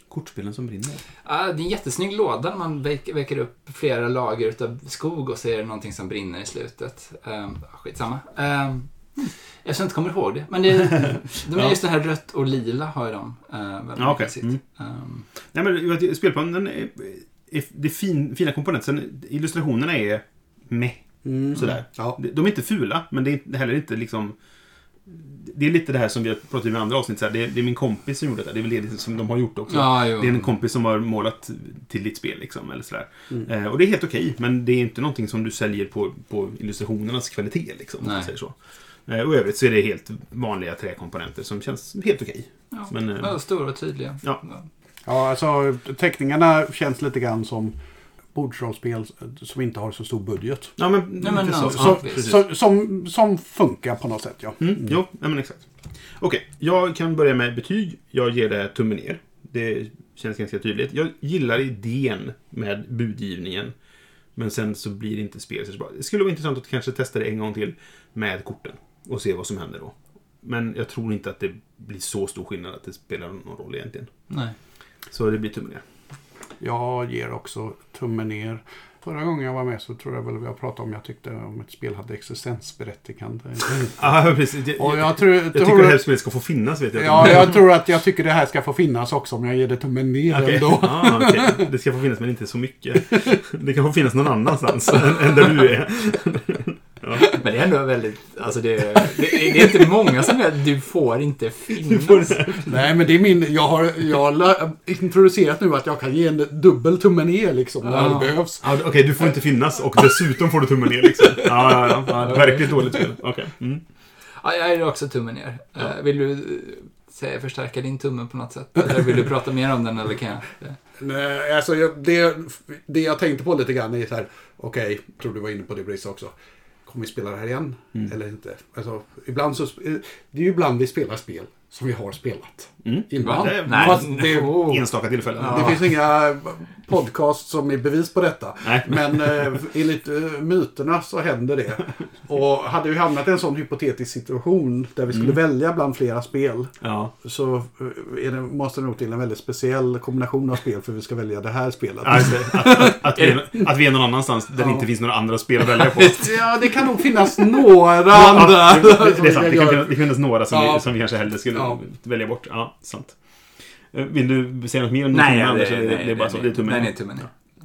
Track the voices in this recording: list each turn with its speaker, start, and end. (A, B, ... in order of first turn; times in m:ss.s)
0:00.1-0:01.0 A
0:01.2-0:15.2 B
0:14.0-0:14.6 A
0:15.5-0:24.3 A
0:21.2-0:22.2 C
0:25.1-0:38.5 A
0:29.7-0:30.4 B
0:38.0-0:38.3 B
0:39.1-0:43.4 A
0:42.7-0:44.6 B
0:45.0-0:47.7 C
0:48.3-0:50.7 C
0:50.8-0:52.4 A
0:51.2-0:52.2 B
0:51.7-0:54.9 C
0:54.6-0:55.6 A
0:56.2-1:03.7 A
1:04.4-1:14.1 A
1:14.3-1:14.6 B
1:15.1-1:15.8 A
1:16.6-1:24.0 C
1:24.0-1:27.6 A
1:24.8-1:26.0 C
1:26.9-1:31.6 C
1:30.3-1:37.4 A
1:37.2-1:42.6 B
1:41.9-1:42.7 A
1:42.7-1:48.6 C
1:47.8-1:48.4 B
1:48.6-1:53.8 A
1:52.2-1:52.7 B
1:54.4-2:00.8 B
2:01.0-2:06.3 C
2:06.8-2:14.8 C
2:12.8-2:15.9 A
2:13.2-2:14.8 B
2:15.4-2:15.8 B
2:15.4-2:33.2 C
2:18.6-2:19.5 A
2:26.8-2:27.1 A
2:32.0-2:36.4 A
2:34.6-2:34.8 C
2:36.0-2:40.9 C
2:38.0-2:43.2 A
2:41.5-2:41.8 C
2:43.9-2:47.3 A
2:45.1-2:47.3 B